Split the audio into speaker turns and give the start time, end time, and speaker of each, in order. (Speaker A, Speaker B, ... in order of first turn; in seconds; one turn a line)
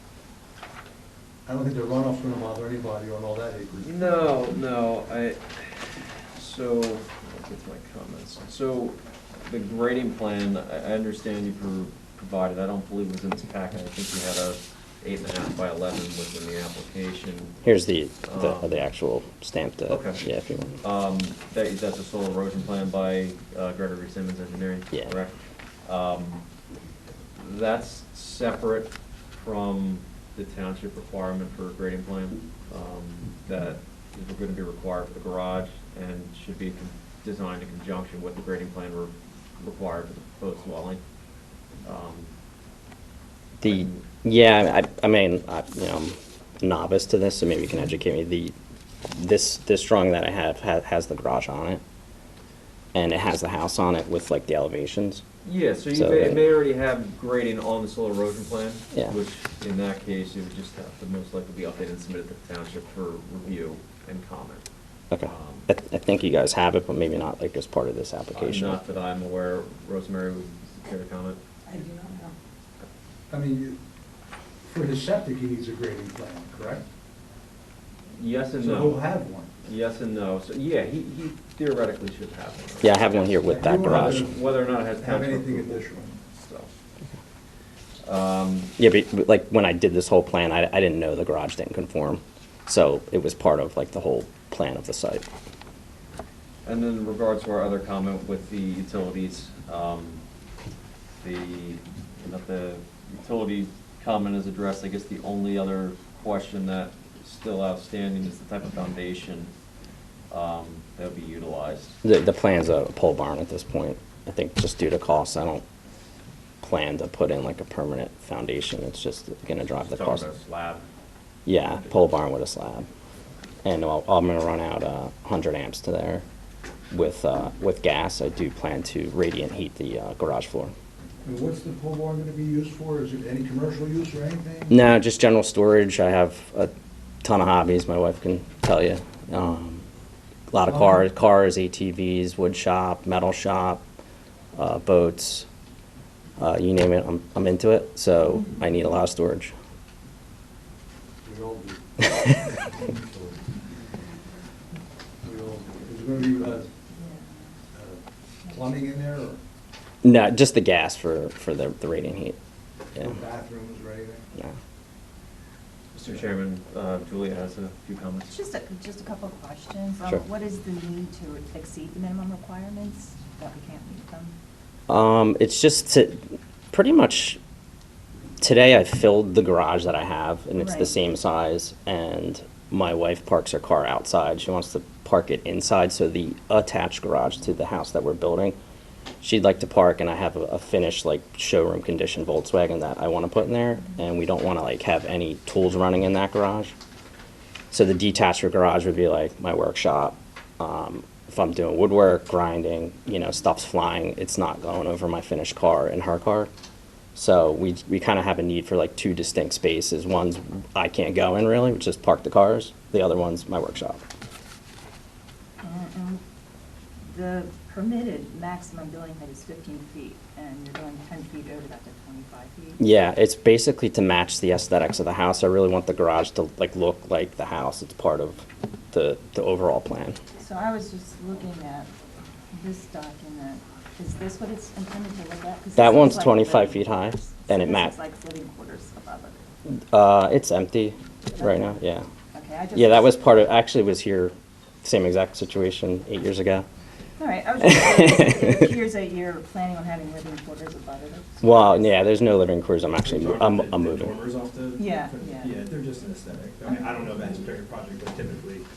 Speaker A: 1.5-4.1
Speaker B: 3.8-17.6
Speaker C: 17.6-20.8
Speaker B: 18.2-18.7
Speaker B: 19.9-20.2
Speaker B: 20.8-26.4
Speaker B: 27.4-41.0
Speaker B: 41.8-42.3
Speaker B: 43.6-44.0
Speaker C: 43.6-48.5
Speaker C: 49.1-51.8
Speaker C: 52.9-55.2
Speaker B: 55.4-64.7
Speaker C: 56.0-56.4
Speaker C: 65.1-68.8
Speaker B: 65.2-65.7
Speaker B: 68.3-71.4
Speaker D: 71.7-72.2
Speaker A: 73.3-73.8
Speaker A: 74.6-76.8
Speaker B: 78.1-79.1
Speaker A: 78.6-79.5
Speaker B: 79.6-86.7
Speaker C: 82.8-84.3
Speaker A: 83.4-84.4
Speaker A: 85.0-86.1
Speaker B: 88.0-88.7
Speaker C: 88.8-95.3
Speaker B: 96.7-100.2
Speaker B: 101.2-109.5
Speaker B: 110.3-112.0
Speaker C: 112.0-115.6
Speaker C: 116.6-120.3
Speaker B: 119.8-120.8
Speaker C: 121.5-122.9
Speaker C: 123.7-126.2
Speaker C: 126.9-130.7
Speaker A: 131.2-134.8
Speaker C: 134.7-136.7
Speaker C: 137.2-139.8
Speaker C: 140.5-143.8
Speaker A: 140.7-141.0
Speaker C: 144.6-145.5
Speaker C: 146.4-149.5
Speaker A: 151.2-153.4
Speaker A: 155.2-156.7
Speaker D: 156.9-157.3
Speaker A: 157.7-159.4
Speaker C: 160.0-162.4
Speaker A: 163.0-164.3
Speaker B: 165.9-168.3
Speaker D: 168.3-174.3
Speaker C: 174.9-176.2
Speaker C: 176.7-177.4
Speaker C: 178.4-188.6
Speaker D: 180.6-180.9
Speaker C: 189.2-196.7
Speaker C: 197.7-206.5
Speaker C: 207.2-214.0
Speaker D: 215.6-216.2
Speaker D: 217.0-222.8
Speaker C: 222.8-230.2
Speaker D: 230.4-231.9
Speaker D: 232.5-239.4
Speaker C: 235.8-237.9
Speaker C: 239.7-242.1
Speaker D: 241.3-241.8
Speaker D: 242.3-243.1
Speaker C: 242.8-246.7
Speaker D: 247.2-252.0
Speaker C: 247.6-248.7
Speaker C: 251.4-254.2
Speaker E: 253.0-258.6
Speaker D: 254.8-255.6